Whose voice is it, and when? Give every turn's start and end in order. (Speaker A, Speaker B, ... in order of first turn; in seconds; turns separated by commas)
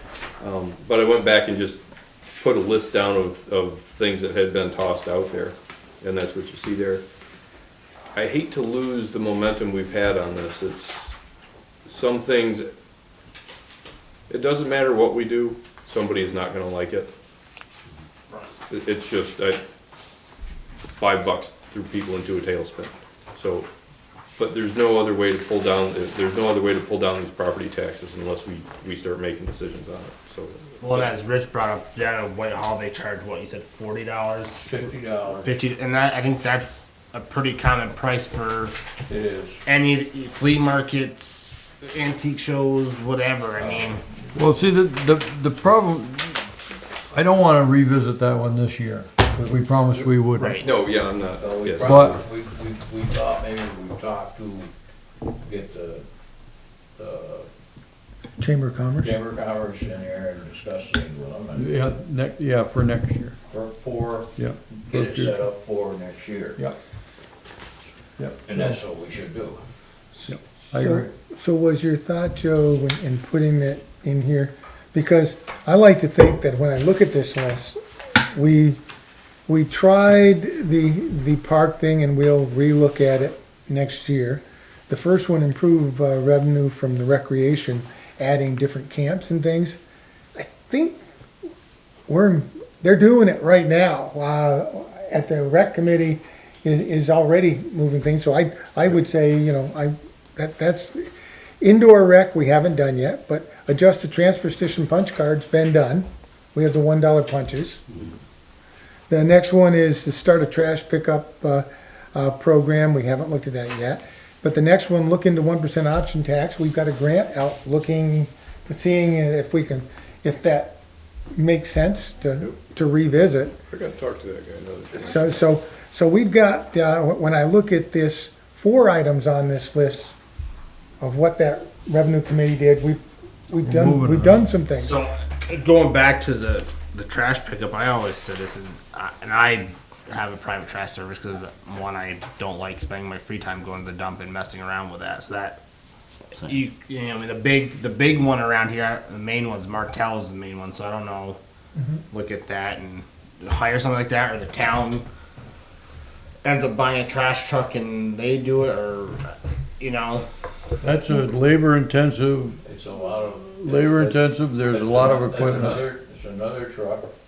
Speaker A: 0.4-1.8, Speaker A: 2.4-7.0, Speaker A: 8.1-11.1, Speaker A: 11.9-12.7, Speaker A: 14.3-17.1, Speaker A: 18.7-19.6, Speaker A: 20.9-23.7, Speaker A: 24.4-31.1, Speaker B: 30.8-34.6, Speaker C: 34.6-35.5, Speaker B: 35.4-38.7, Speaker C: 39.1-39.6, Speaker B: 39.6-44.0, Speaker D: 44.3-46.5, Speaker D: 47.1-50.6, Speaker B: 50.4-50.7, Speaker A: 50.6-52.2, Speaker C: 51.3-54.7, Speaker D: 51.8-52.2, Speaker C: 55.4-56.0, Speaker C: 57.0-57.5, Speaker E: 58.4-59.2, Speaker C: 59.0-61.7, Speaker D: 61.5-63.4, Speaker C: 63.5-66.6, Speaker D: 64.4-65.4, Speaker D: 68.2-68.8, Speaker C: 68.4-69.6, Speaker E: 70.2-77.8, Speaker D: 70.3-71.1, Speaker E: 78.3-78.8, Speaker E: 79.5-89.8, Speaker E: 90.4-91.0, Speaker E: 92.1-101.1, Speaker E: 101.6-107.8, Speaker E: 109.1-120.8, Speaker E: 121.3-123.5, Speaker A: 123.7-125.4, Speaker E: 125.0-130.2, Speaker E: 131.0-135.0, Speaker D: 133.6-134.4, Speaker B: 134.8-145.6, Speaker B: 146.4-151.4, Speaker B: 152.1-155.1, Speaker B: 156.4-160.2, Speaker D: 160.8-162.6, Speaker C: 162.6-167.1, Speaker D: 163.5-165.9